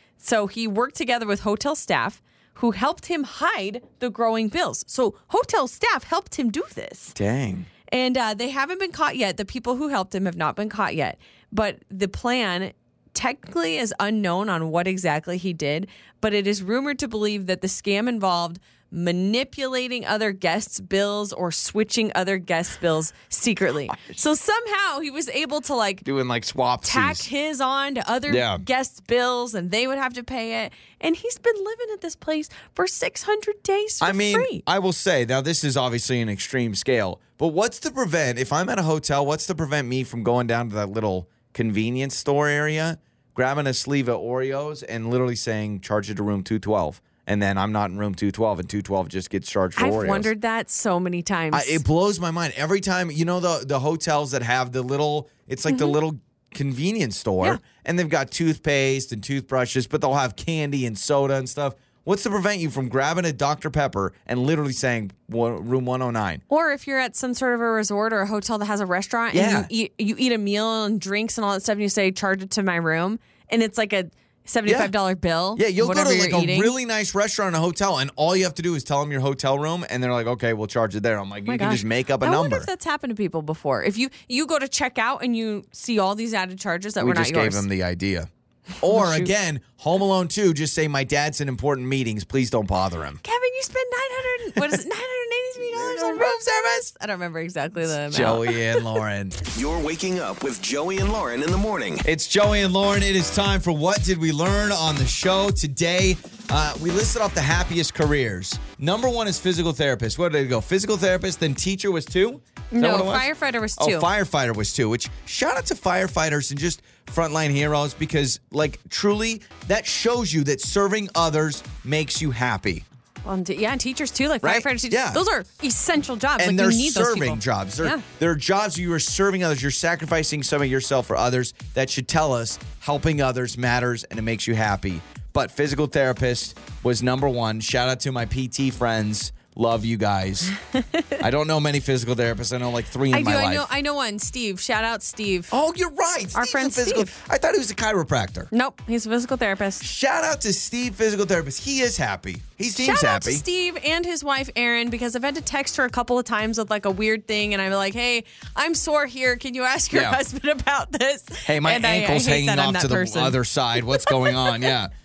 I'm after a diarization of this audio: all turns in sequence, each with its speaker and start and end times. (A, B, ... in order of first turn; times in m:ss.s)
0:00.2-0:07.2 A
0:07.2-0:07.7 B
0:07.9-0:26.0 A
0:23.9-0:24.2 B
0:26.0-0:27.3 B
0:26.8-0:34.6 A
0:28.3-0:28.6 B
0:34.0-0:50.3 B
0:49.8-0:51.8 A
0:51.5-1:06.4 B
0:55.7-0:56.0 A
1:06.5-1:16.7 A
1:09.3-1:09.7 B
1:14.7-1:14.9 B
1:15.6-1:22.7 B
1:21.5-1:27.7 A
1:27.0-1:28.3 B
1:28.8-1:33.2 B
1:28.9-1:29.3 A
1:33.2-1:38.9 A
1:35.6-1:36.9 B
1:37.9-1:39.4 B
1:39.5-1:42.0 C
1:42.0-2:02.8 B
1:52.7-1:54.1 A
2:03.2-2:08.0 A
2:04.4-2:05.2 B
2:06.4-2:20.5 B
2:20.8-2:21.2 A
2:21.2-2:23.7 B
2:23.1-2:25.5 A
2:25.5-2:28.5 B
2:26.3-2:27.2 A
2:28.5-2:29.9 A
2:29.8-2:33.4 B
2:32.8-2:44.7 A
2:39.9-2:40.2 B
2:41.4-2:44.9 B